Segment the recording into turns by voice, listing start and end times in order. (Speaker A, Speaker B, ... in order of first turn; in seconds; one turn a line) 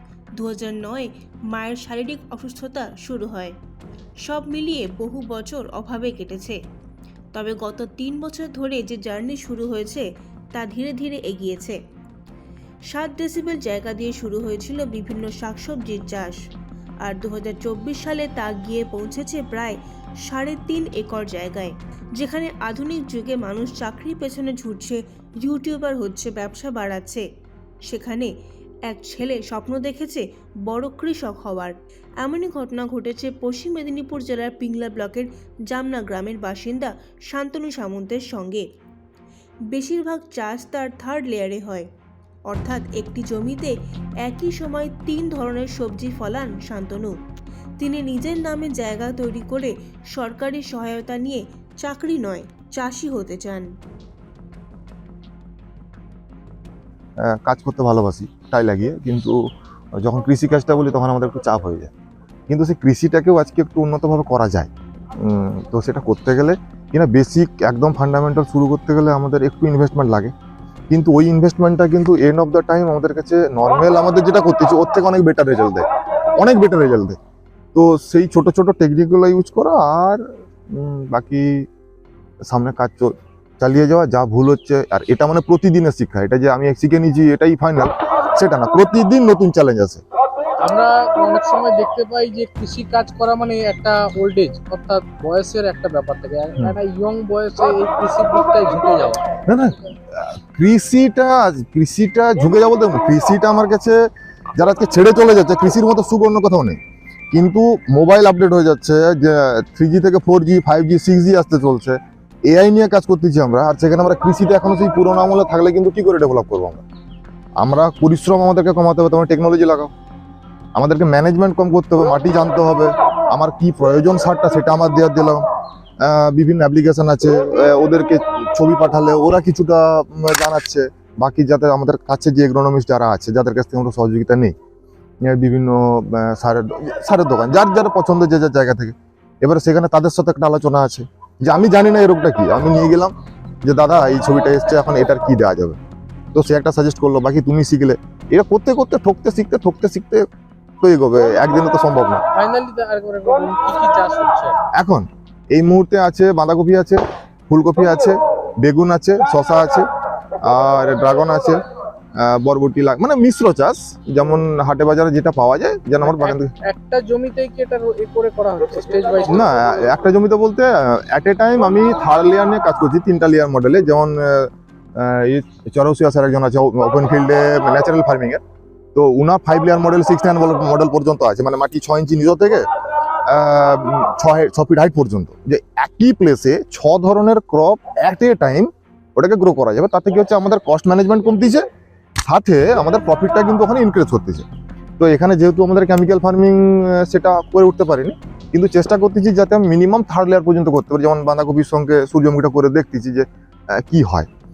Speaker A: 0.4-3.5
Speaker A: 4.2-6.6
Speaker A: 7.3-11.8
Speaker A: 12.9-16.4
Speaker A: 17.0-27.2
Speaker A: 27.9-28.3
Speaker A: 28.9-38.6
Speaker A: 39.7-41.9
Speaker A: 42.5-47.1
Speaker A: 47.8-53.7
Speaker B: 57.2-59.4
Speaker B: 60.0-61.9
Speaker B: 62.5-70.3
Speaker B: 70.9-75.8
Speaker B: 76.3-77.2
Speaker B: 77.7-81.6
Speaker B: 82.5-90.0
Speaker C: 90.6-99.2
Speaker B: 99.5-104.0
Speaker B: 104.6-106.8
Speaker B: 107.3-116.8
Speaker B: 117.6-119.9
Speaker B: 120.8-125.4
Speaker B: 126.0-134.5
Speaker B: 135.2-143.1
Speaker B: 143.6-145.8
Speaker B: 146.3-150.2
Speaker B: 150.8-152.2
Speaker C: 152.3-154.6
Speaker B: 154.8-159.8
Speaker B: 160.4-161.6
Speaker B: 162.2-166.5
Speaker C: 166.0-169.5
Speaker B: 169.3-178.4
Speaker B: 178.9-182.6
Speaker B: 183.2-191.6
Speaker B: 192.2-194.4
Speaker B: 195.0-204.3